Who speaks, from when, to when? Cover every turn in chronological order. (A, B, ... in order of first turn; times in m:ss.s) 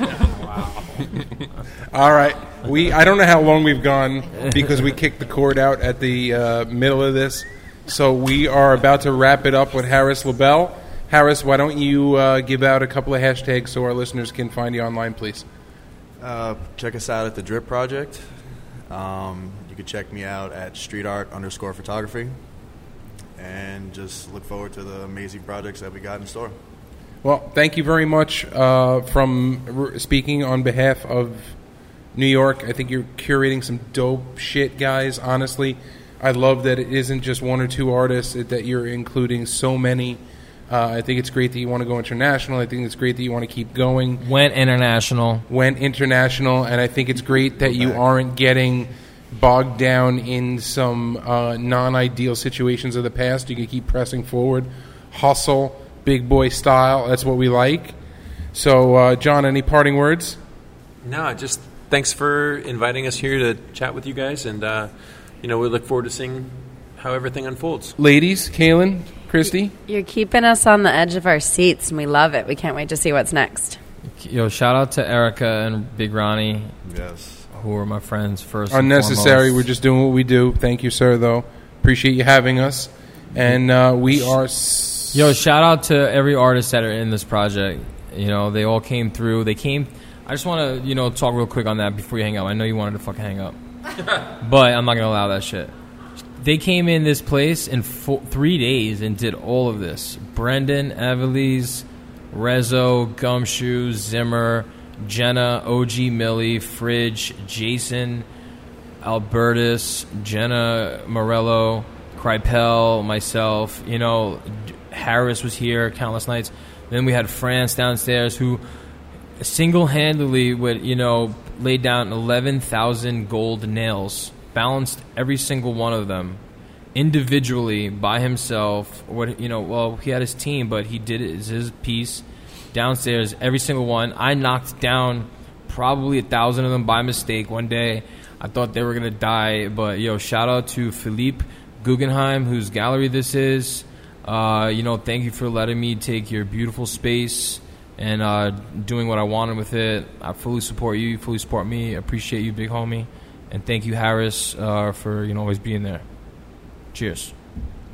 0:01.9-0:15.5 A
0:16.2-0:18.3 B
0:18.9-0:22.4 B
0:23.4-0:26.6 B
0:27.2-0:31.6 A
0:32.1-0:44.2 A
0:44.2-0:45.5 C
0:45.5-0:58.0 A
0:58.5-1:00.4 A
1:01.0-1:08.0 D
1:08.0-1:09.8 A
1:09.4-1:13.8 E
1:14.1-1:16.8 C
1:16.8-1:17.5 B
1:17.5-1:19.6 C
1:18.7-1:25.3 A
1:23.4-1:24.4 C
1:25.1-1:35.7 C
1:36.4-1:48.3 C
1:49.0-1:58.6 C
1:59.4-2:06.4 C
2:07.0-2:36.1 C
2:36.9-2:37.4 C